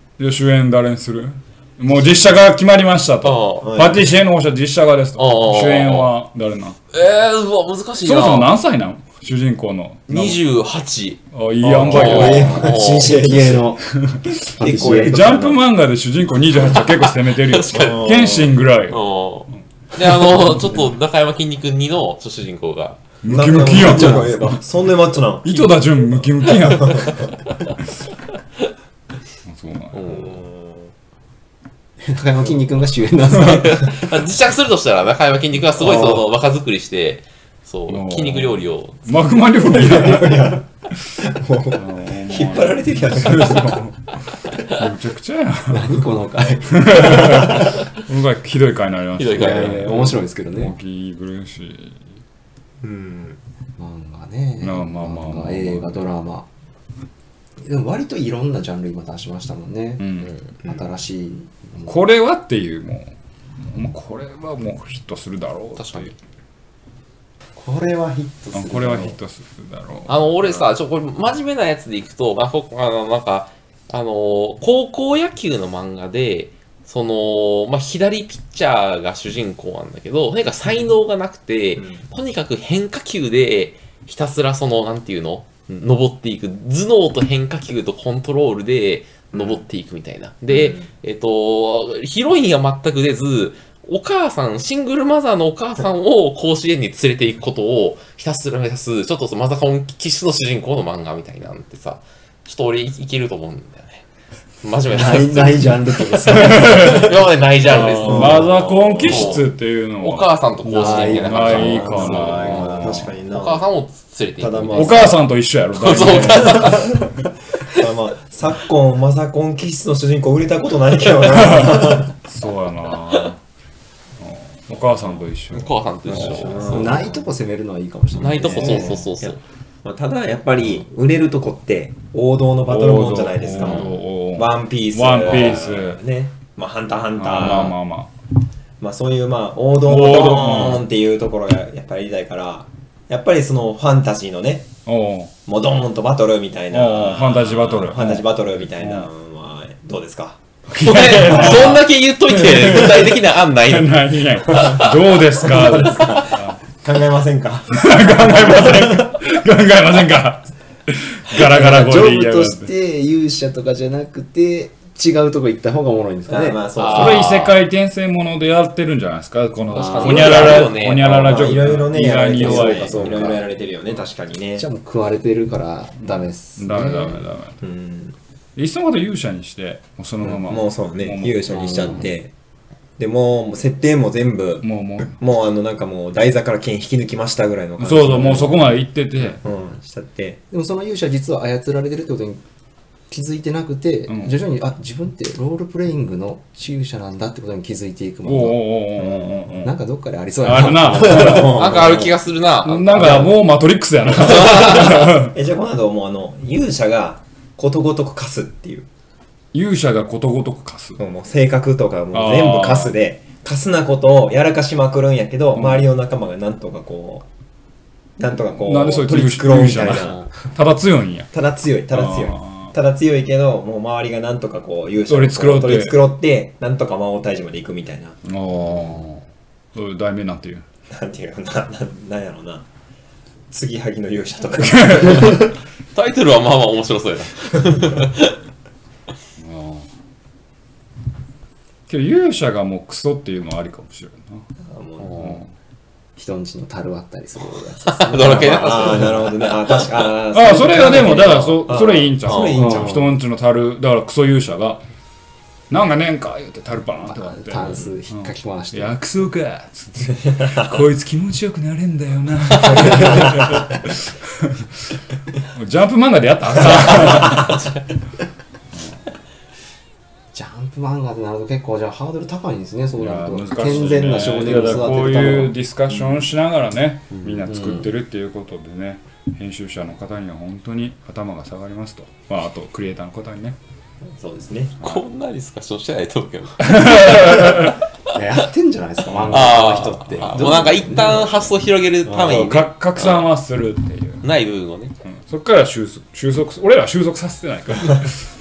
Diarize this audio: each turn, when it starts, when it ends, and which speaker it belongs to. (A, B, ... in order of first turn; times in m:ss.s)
0:00.2-0:06.8 A
0:03.2-0:03.7 B
0:03.6-0:04.1 C
0:05.2-0:06.1 B
0:06.9-0:08.5 B
0:08.0-0:10.4 A
0:10.1-0:11.2 B
0:11.3-0:12.6 A
0:11.6-0:13.7 C
0:11.8-0:13.8 D
0:11.8-0:13.3 B
0:14.0-0:19.0 A
0:14.6-0:15.4 D
0:14.6-0:15.6 C
0:16.6-0:18.1 B
0:17.7-0:18.6 C
0:18.9-0:23.0 B
0:23.2-0:24.6 A
0:23.2-0:27.2 C
0:23.7-0:24.4 D
0:25.4-0:27.3 A
0:29.4-0:30.3 A
0:29.9-0:30.4 B
0:30.2-0:30.9 C
0:32.0-0:34.0 D
0:33.3-0:39.3 B
0:37.9-0:40.6 A
0:39.6-0:43.8 C
0:41.7-0:46.0 A
0:45.7-0:47.1 D
0:46.6-0:52.0 A
0:46.9-0:47.7 C
0:49.2-0:50.1 B
0:49.3-0:50.7 D
0:52.8-0:53.4 C
0:53.8-0:56.5 D
0:54.6-0:56.0 A
0:57.6-1:02.0 D
1:00.0-1:00.3 A
1:01.9-1:03.1 A
1:03.7-1:06.1 A
1:05.8-1:06.1 B
1:07.6-1:09.2 D
1:08.5-1:10.7 A
1:10.1-1:44.0 B
1:29.3-1:29.6 C
1:30.5-1:30.9 C
1:44.6-1:52.6 B
1:44.9-1:47.2 D
1:46.3-1:53.1 A
1:48.0-1:49.4 C
1:50.6-1:52.8 D
1:52.0-1:53.6 C
1:53.3-1:56.9 B
1:54.4-1:55.1 C
1:54.8-1:57.0 A
1:56.1-1:57.1 C
1:57.7-2:02.1 C
2:01.3-2:03.4 A
2:04.2-2:07.0 A
2:05.5-2:06.9 B
2:06.1-2:07.1 C
2:06.7-2:09.0 D
2:08.2-2:09.4 B
2:08.2-2:17.7 C
2:08.6-2:09.1 A
2:12.6-2:16.0 A
2:17.2-2:18.1 A
2:18.8-2:24.7 C
2:19.8-2:20.9 A
2:24.8-2:25.3 A
2:25.5-2:30.4 C
2:26.7-2:29.1 A
2:30.7-2:36.6 A
2:30.8-2:36.3 B
2:31.3-2:31.8 C
2:35.4-2:39.1 C
2:37.7-2:42.7 A
2:41.3-2:46.6 D
2:46.3-2:47.5 C
2:46.8-2:47.6 B
2:46.9-2:53.4 A
2:49.7-2:50.4 D
2:49.8-2:51.7 B
2:50.1-2:54.6 C
2:52.3-2:53.5 D
2:54.6-2:57.3 D
2:56.0-2:57.6 A
2:57.6-2:58.2 C
2:58.6-3:01.9 A
3:00.2-3:02.3 C
3:01.5-3:02.1 D
3:03.0-3:10.4 C
3:04.6-3:05.2 A
3:07.8-3:09.4 A
3:10.5-3:12.4 D
3:13.1-3:18.7 D
3:14.1-3:14.4 A
3:18.2-3:19.8 A
3:19.0-3:19.5 C
3:19.6-3:21.6 D
3:20.4-3:21.6 A
3:20.8-3:22.2 C
3:21.1-3:23.3 B
3:22.6-3:25.4 A
3:23.0-3:23.4 D
3:23.0-3:23.3 C
3:24.1-3:25.1 B
3:24.5-3:28.9 C
3:29.5-3:31.0 A
3:31.0-3:37.2 C
3:32.1-3:33.0 A
3:35.6-3:35.9 A
3:38.2-3:40.2 C
3:38.6-3:41.3 A
3:40.0-3:40.3 D
3:41.3-3:48.2 C
3:41.9-3:42.7 A
3:45.1-3:46.0 A
3:48.2-3:49.2 A
3:49.7-3:50.6 A
3:50.9-3:52.6 C
3:53.5-3:55.4 C
3:54.6-3:55.3 A
3:56.0-3:58.4 B
3:59.4-3:59.9 A
4:01.9-4:04.4 A
4:04.7-4:05.2 C
4:05.0-4:05.4 B
4:05.2-4:05.5 A
4:06.2-4:09.2 D
4:07.9-4:09.9 B
4:08.3-4:13.1 C
4:10.3-4:14.8 A
4:12.2-4:12.6 B
4:12.6-4:13.2 D
4:15.7-4:24.6 A
4:17.0-4:19.0 D
4:20.3-4:20.7 C
4:22.6-4:23.6 C
4:25.4-4:27.8 A
4:26.8-4:27.8 B
4:27.1-4:27.5 C
4:28.7-4:29.0 A
4:30.3-4:35.6 D
4:33.0-4:43.6 A
4:35.9-4:36.2 C
4:37.5-4:37.9 D
4:44.1-4:44.8 C
4:44.8-4:47.8 B
4:46.6-4:47.8 A
4:48.1-4:51.3 D
4:49.1-4:50.7 A
4:49.3-4:53.3 B
4:52.1-4:52.4 D
4:52.1-4:54.3 A
4:54.2-4:55.0 B
4:55.1-4:58.2 A